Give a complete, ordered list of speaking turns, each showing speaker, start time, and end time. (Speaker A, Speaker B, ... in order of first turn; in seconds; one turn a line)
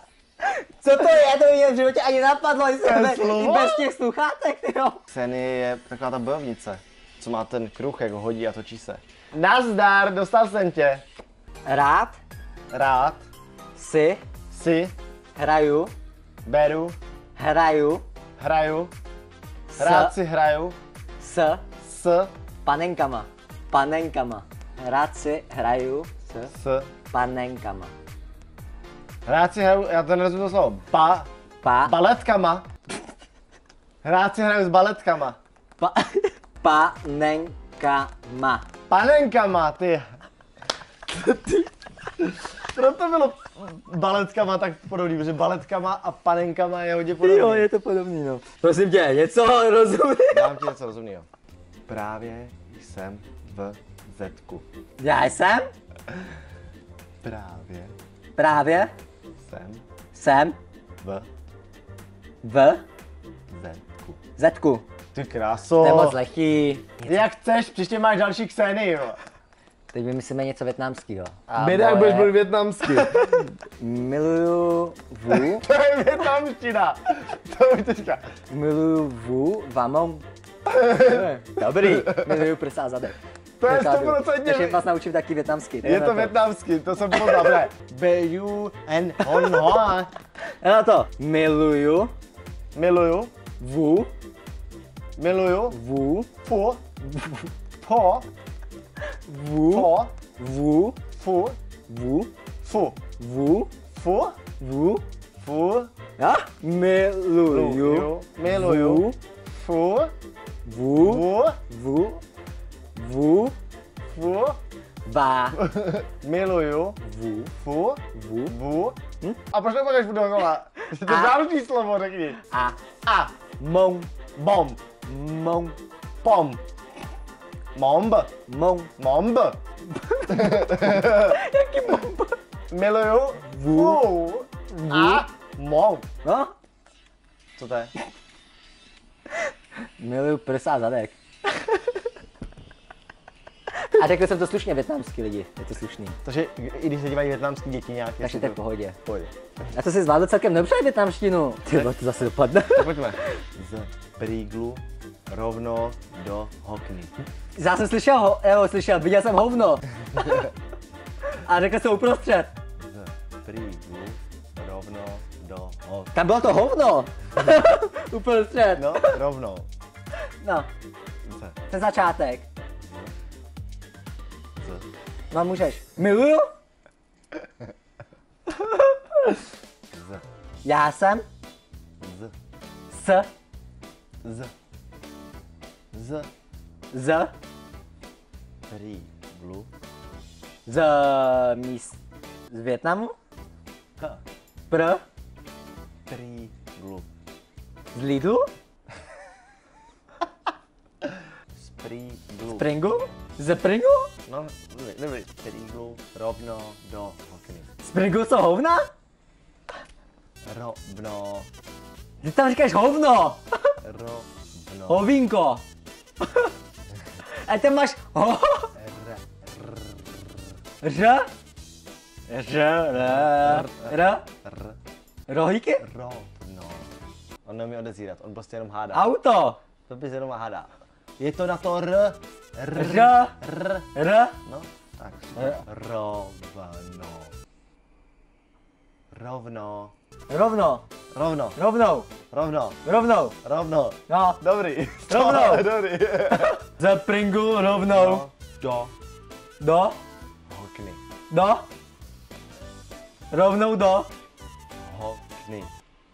Speaker A: 0.4-5.0
Speaker B: 2.8-3.9
Speaker B: 5.1-11.1
Speaker A: 11.7-12.2
Speaker B: 12.7-13.2
Speaker A: 13.8-14.2
Speaker B: 14.5-14.9
Speaker A: 15.4-15.9
Speaker B: 16.4-16.9
Speaker A: 17.4-18.1
Speaker B: 18.4-18.9
Speaker A: 19.7-20.1
Speaker B: 19.8-20.8
Speaker A: 21.2-21.6
Speaker B: 21.8-22.3
Speaker A: 22.6-26.5
Speaker B: 26.5-26.9
Speaker A: 27.1-27.9
Speaker B: 29.2-31.3
Speaker A: 31.6-31.9
Speaker B: 31.8-32.6
Speaker B: 34.0-35.4
Speaker A: 35.8-38.6
Speaker B: 38.9-40.1
Speaker B: 41.2-41.6
Speaker B: 42.2-47.7
Speaker A: 47.2-50.6
Speaker B: 50.3-51.3
Speaker B: 51.9-54.6
Speaker A: 55.0-55.7
Speaker B: 57.2-57.9
Speaker A: 58.4-58.9
Speaker B: 59.4-59.8
Speaker A: 60.1-60.6
Speaker B: 61.0-61.3
Speaker A: 62.4-62.8
Speaker B: 63.5-64.2
Speaker A: 64.4-64.9
Speaker B: 65.1-66.2
Speaker A: 65.8-67.2
Speaker B: 67.1-69.2
Speaker A: 69.9-72.3
Speaker B: 71.5-73.5
Speaker A: 72.9-75.6
Speaker B: 75.3-78.3
Speaker A: 78.5-80.2
Speaker B: 80.7-81.3
Speaker A: 81.0-86.3
Speaker B: 81.8-82.4
Speaker B: 83.6-84.8
Speaker B: 85.8-90.1
Speaker A: 87.1-87.6
Speaker A: 89.2-89.8
Speaker A: 90.6-92.1
Speaker B: 92.8-93.3
Speaker A: 93.6-94.1
Speaker B: 95.2-95.8
Speaker A: 95.7-96.3
Speaker B: 96.4-96.8
Speaker A: 97.0-97.5
Speaker B: 97.8-98.3
Speaker A: 99.1-101.0
Speaker B: 99.7-100.1
Speaker B: 101.2-101.6
Speaker A: 101.9-102.3
Speaker B: 102.6-103.0
Speaker A: 103.2-103.7
Speaker B: 104.0-104.4
Speaker A: 104.6-105.0
Speaker B: 105.4-105.9
Speaker A: 106.2-109.2
Speaker B: 107.5-110.1
Speaker A: 110.7-112.2
Speaker B: 111.0-111.6
Speaker A: 113.0-113.5
Speaker B: 114.1-114.6
Speaker A: 115.1-115.6
Speaker B: 115.5-117.0
Speaker A: 117.0-117.5
Speaker B: 117.6-123.3
Speaker A: 118.1-118.5
Speaker A: 120.9-121.4
Speaker A: 123.6-124.1
Speaker B: 124.4-124.8
Speaker A: 125.1-125.8
Speaker B: 126.2-126.6
Speaker B: 127.8-128.3
Speaker A: 128.5-128.9
Speaker B: 129.0-129.6
Speaker A: 129.9-132.4
Speaker B: 130.3-131.3
Speaker B: 132.7-136.1
Speaker A: 133.5-134.1
Speaker A: 134.7-135.2
Speaker A: 136.2-136.5
Speaker B: 137.6-137.9
Speaker A: 140.0-141.8
Speaker A: 143.7-146.2
Speaker B: 146.2-149.3
Speaker A: 148.2-149.0
Speaker A: 149.7-153.4
Speaker B: 152.7-157.1
Speaker A: 157.6-160.4
Speaker B: 160.1-160.4
Speaker A: 161.3-162.5
Speaker B: 162.8-166.1
Speaker A: 166.1-169.2
Speaker B: 168.7-169.7
Speaker A: 170.4-170.7
Speaker B: 171.3-171.6
Speaker A: 171.7-172.5
Speaker B: 172.8-173.1
Speaker A: 175.3-176.4
Speaker A: 178.7-179.4
Speaker B: 179.9-180.2
Speaker A: 180.6-181.2
Speaker B: 182.0-182.3
Speaker A: 182.9-183.3
Speaker B: 184.2-184.5
Speaker B: 185.9-186.3
Speaker A: 186.9-187.3
Speaker B: 188.7-189.7
Speaker A: 190.7-192.0
Speaker A: 192.5-193.2
Speaker A: 194.7-195.0
Speaker B: 196.1-197.1
Speaker A: 197.9-198.5
Speaker B: 201.6-202.7
Speaker A: 202.5-204.1
Speaker B: 204.3-207.7
Speaker A: 207.8-208.8
Speaker B: 210.4-211.5
Speaker A: 212.2-213.8
Speaker B: 213.8-215.1
Speaker A: 214.9-215.6
Speaker A: 216.2-216.5
Speaker A: 217.3-218.7
Speaker B: 218.8-219.9
Speaker A: 220.8-221.3
Speaker A: 222.3-224.2
Speaker B: 223.0-224.8
Speaker A: 225.3-225.8
Speaker B: 225.8-226.9
Speaker B: 227.4-229.1
Speaker A: 228.9-229.6
Speaker B: 229.9-233.9
Speaker A: 232.7-233.3
Speaker A: 233.9-234.3
Speaker B: 234.4-237.3
Speaker A: 235.3-235.6
Speaker B: 239.1-239.9
Speaker A: 240.3-240.8
Speaker B: 241.1-241.6
Speaker A: 241.6-242.1
Speaker B: 242.3-242.8
Speaker A: 242.8-243.3
Speaker B: 243.4-246.6
Speaker A: 244.1-244.4
Speaker A: 245.1-245.7
Speaker A: 246.3-248.2
Speaker B: 247.9-248.9
Speaker A: 249.6-250.0
Speaker B: 250.5-251.0
Speaker A: 251.3-251.7
Speaker A: 253.3-254.1
Speaker B: 254.8-255.7